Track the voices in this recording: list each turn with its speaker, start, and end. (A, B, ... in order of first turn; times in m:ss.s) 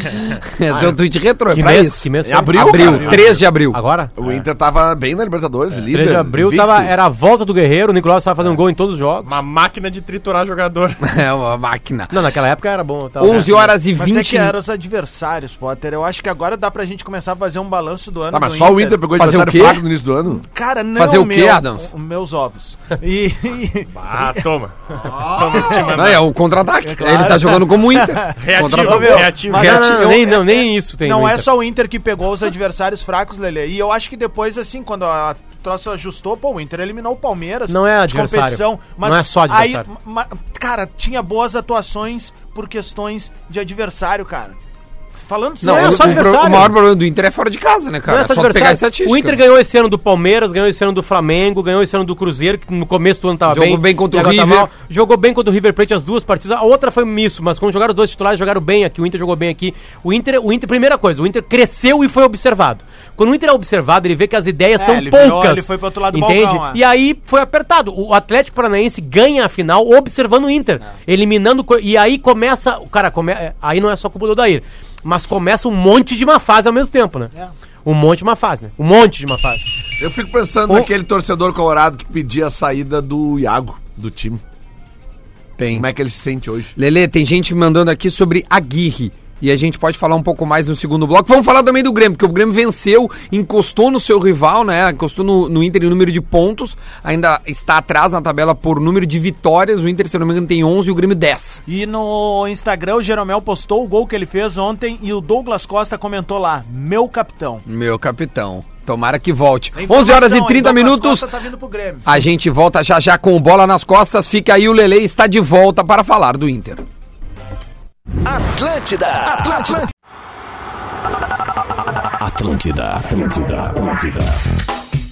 0:00.4-0:03.8 A
0:00.7-0:01.0 B
0:01.5-0:04.1 C
0:02.2-0:03.4 B
0:04.2-0:06.9 B
0:05.9-0:09.3 C
0:09.2-0:11.0 D
0:11.0-0:12.1 A
0:12.1-0:13.7 C
0:13.2-0:14.5 A
0:13.5-0:19.1 E
0:18.3-0:20.4 B
0:19.1-0:19.9 A
0:20.3-0:24.4 E
0:21.0-0:21.9 A
0:23.9-0:26.3 D
0:25.0-0:25.9 E
0:25.6-0:30.2 A
0:26.8-0:44.6 E
0:28.4-0:29.7 D
0:29.6-0:31.5 C
0:37.7-0:39.9 C
0:45.1-0:46.3 E
0:45.6-0:49.4 A
0:45.6-0:46.8 C
0:48.1-1:17.3 C
0:53.5-0:54.7 A
1:04.8-1:06.8 E
1:17.8-1:19.7 C
1:20.0-1:24.4 B
1:25.6-1:25.9 A
1:25.7-1:26.7 B
1:26.8-1:41.6 A
1:41.6-1:47.6 E
1:47.6-1:51.3 A
1:49.8-1:52.1 E
1:52.0-1:56.8 A
1:58.3-1:59.9 F
2:01.8-2:04.4 F